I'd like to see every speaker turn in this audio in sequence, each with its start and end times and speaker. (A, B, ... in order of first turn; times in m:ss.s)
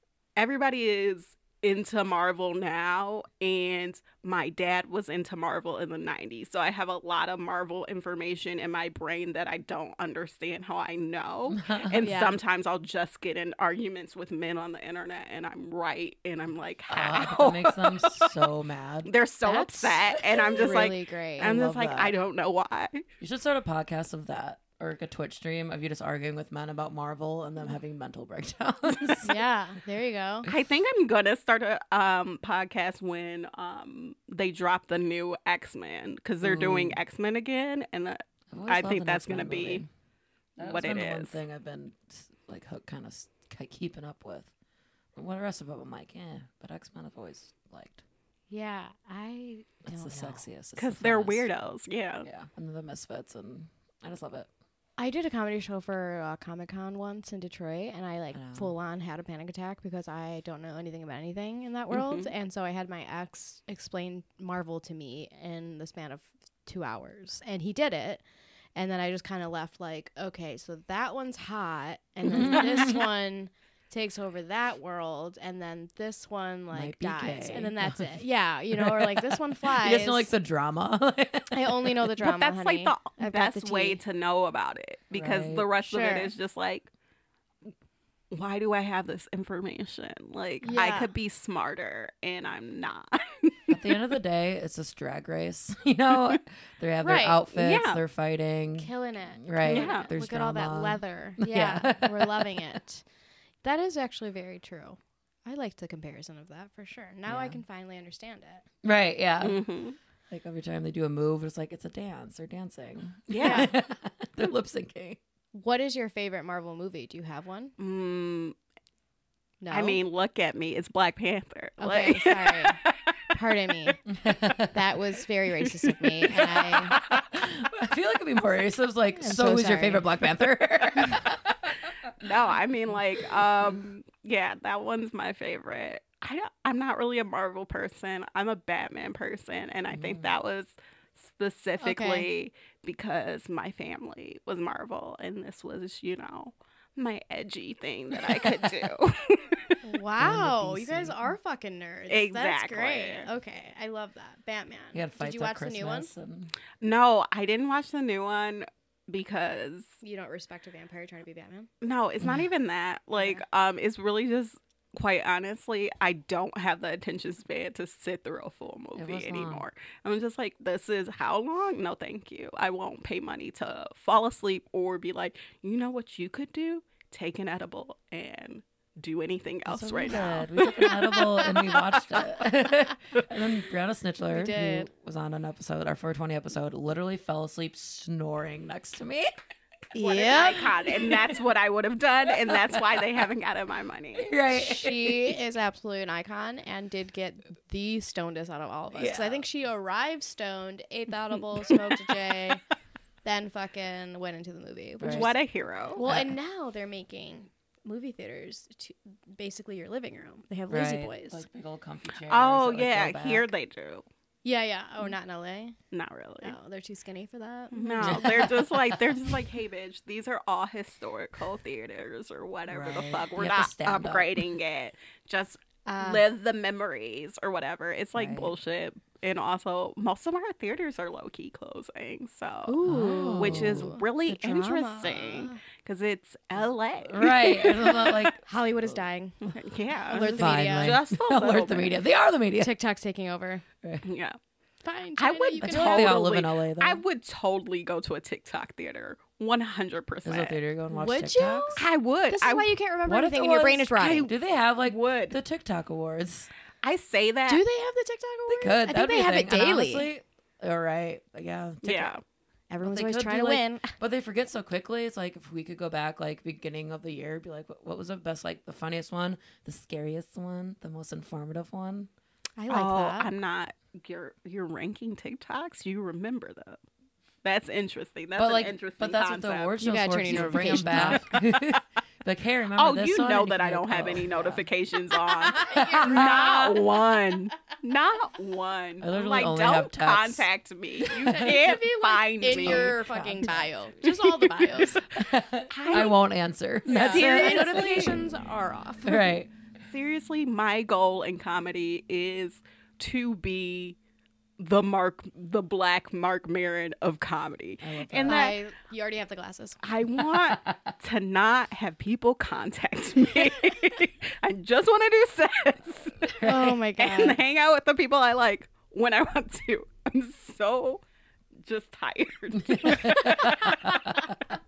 0:00.4-0:18.5 A
0:11.5-0:12.1 B
0:12.0-0:12.4 C
0:16.9-0:19.1 B
0:19.0-0:23.0 A
0:19.4-0:21.5 C
0:20.1-0:22.1 B
0:23.2-0:29.3 B
0:29.2-0:30.5 C
0:30.5-0:39.8 A
0:36.4-0:37.0 B
0:38.5-0:39.9 B
0:40.6-0:44.5 B
0:40.6-0:41.4 A
0:45.1-0:48.0 B
0:48.5-0:50.4 C
0:49.8-0:51.5 B
0:50.8-0:52.3 A
0:52.2-0:54.5 B
0:55.0-1:08.2 C
0:58.3-0:58.7 B
1:01.9-1:02.3 A
1:08.8-1:20.3 C
1:12.2-1:13.1 B
1:16.7-1:22.1 B
1:21.5-1:24.0 C
1:22.2-1:26.9 A
1:25.1-1:25.7 B
1:25.8-1:26.3 C
1:28.3-1:33.8 A
1:30.6-1:31.1 C
1:33.7-1:42.8 B
1:37.0-1:37.4 C
1:37.5-1:38.0 A
1:38.8-1:43.0 C
1:39.7-1:40.1 A
1:43.6-1:48.6 C
1:47.2-1:47.6 B
1:48.8-1:49.6 B
1:49.4-1:50.0 A
1:50.3-1:55.2 B
1:53.3-1:53.7 A
1:53.4-1:53.7 C
1:55.5-1:57.7 C
1:57.8-1:58.5 A
1:59.6-2:00.0 C
1:59.7-2:02.9 A
2:01.8-2:04.0 C
2:04.1-2:04.8 B
2:04.7-2:07.0 C
2:06.3-2:12.1 B
2:09.1-2:10.1 C
2:12.2-2:29.8 A
2:19.9-2:20.3 B
2:21.8-2:22.3 C
2:29.8-2:36.1 C
2:30.2-2:31.2 B
2:32.1-2:33.3 A
2:34.9-2:36.5 B
2:36.8-2:39.9 A
2:40.0-2:41.7 C
2:41.8-3:01.2 A
2:43.1-2:43.4 C
2:49.0-2:49.6 B
2:59.6-3:09.3 B
3:04.3-3:04.9 C
3:09.9-3:10.8 C
3:10.0-3:14.3 A
3:11.1-3:11.3 B
3:12.5-3:13.0 B
3:14.2-3:15.4 B
3:14.5-3:22.6 C
3:18.9-3:19.4 B
3:23.2-3:25.4 C
3:25.0-3:25.3 B
3:25.1-3:26.0 A
3:25.9-3:31.4 C
3:26.0-3:26.3 B
3:30.7-3:33.5 B
3:32.3-3:34.0 A
3:34.4-3:35.8 C
3:35.9-3:36.6 A
3:36.4-3:38.5 C
3:37.7-3:52.8 A
3:38.0-3:39.0 B
3:42.7-3:44.5 B
3:45.8-3:46.2 C
3:48.1-3:48.5 B
3:52.7-3:55.6 C
3:52.8-3:53.9 B
3:53.4-3:58.3 A
3:57.0-3:59.0 B
3:58.4-3:59.5 C
3:59.4-4:02.0 A
4:00.0-4:01.0 C
4:00.2-4:02.7 B
4:02.6-4:03.6 C
4:04.0-4:04.4 A
4:04.8-4:06.2 C
4:05.2-4:10.6 A
4:05.6-4:07.0 B
4:10.2-4:11.8 B
4:10.9-4:14.3 C
4:11.8-4:12.8 A
4:13.0-4:16.5 B
4:14.8-4:15.4 A
4:16.8-4:17.6 A
4:17.5-4:20.1 C
4:18.5-4:22.1 B
4:21.8-4:22.2 A
4:22.7-4:23.9 C
4:22.8-4:32.1 B
4:32.6-4:33.3 C
4:32.7-4:36.8 A
4:37.4-4:41.4 A
4:38.4-4:44.7 B
4:39.8-4:41.3 C
4:42.8-4:53.0 A
4:45.5-4:46.9 C
4:45.6-4:46.5 B
4:49.0-4:50.4 B
4:51.0-4:51.6 B
4:51.2-4:55.0 C
4:52.5-4:54.0 B
4:54.0-4:55.0 A
4:55.1-4:58.2 B
4:55.7-4:56.2 A
4:56.9-4:58.2 A
4:56.9-4:59.3 C
4:59.0-4:59.5 B
4:59.9-5:04.0 A
5:04.6-5:08.6 A
5:07.8-5:08.5 B
5:08.3-5:09.8 C
5:09.8-5:21.0 A
5:10.2-5:10.9 B
5:16.2-5:16.7 B
5:16.4-5:17.4 C
5:21.6-5:23.8 A
5:22.6-5:24.3 B
5:23.1-5:24.2 C